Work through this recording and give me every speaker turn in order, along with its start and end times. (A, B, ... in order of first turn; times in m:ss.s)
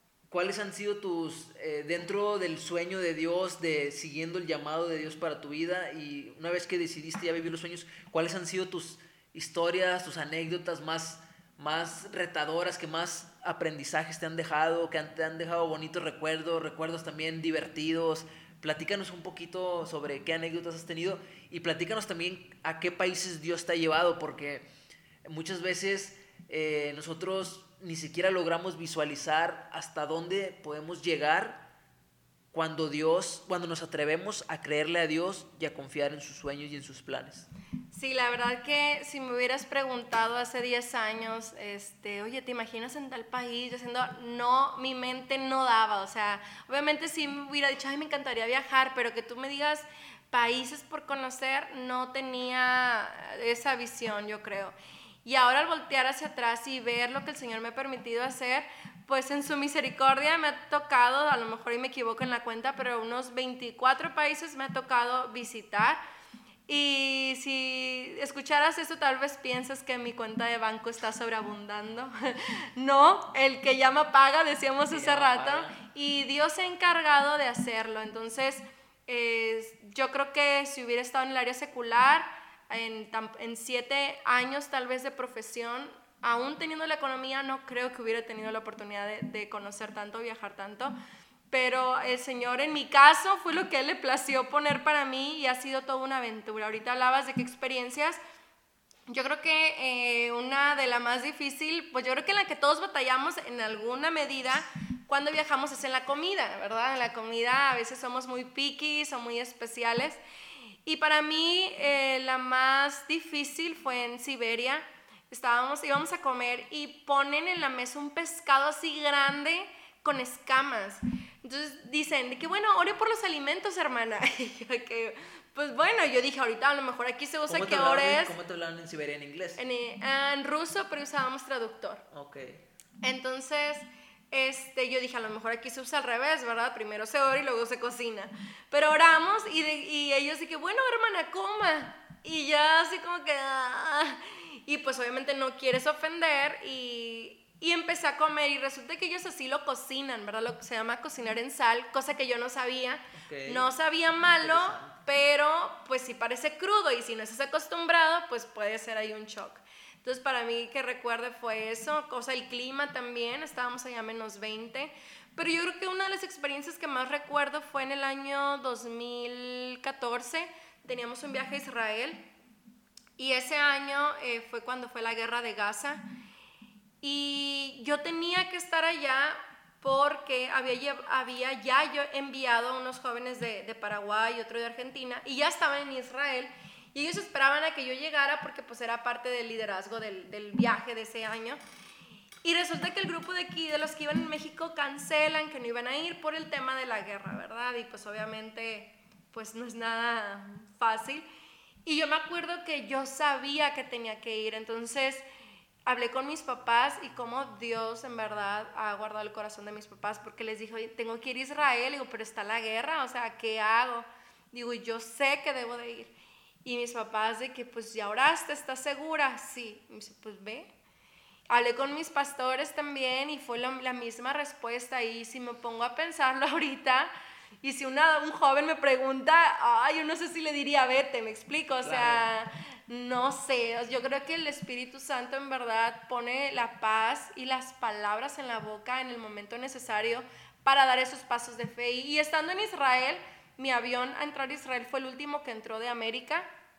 0:00.3-0:24.7 A
0:25.3-0:31.7 A
0:32.5-0:37.5 A
0:37.9-1:06.0 B
1:06.7-1:30.9 B
1:14.9-1:15.8 A
1:31.5-1:38.2 B
1:39.1-1:50.2 B
1:50.8-2:08.4 B
2:07.5-2:09.6 A
2:09.6-2:12.0 B
2:12.1-2:12.6 A
2:13.0-2:52.3 B
2:33.2-2:33.7 A
2:34.4-2:35.0 A
2:53.2-2:56.0 B
2:57.0-3:11.6 B
3:12.4-3:21.3 B
3:21.8-3:25.2 B
3:25.9-3:36.1 B
3:36.6-3:40.7 B
3:41.5-3:47.1 B
3:47.6-4:06.5 B
3:51.8-3:52.3 A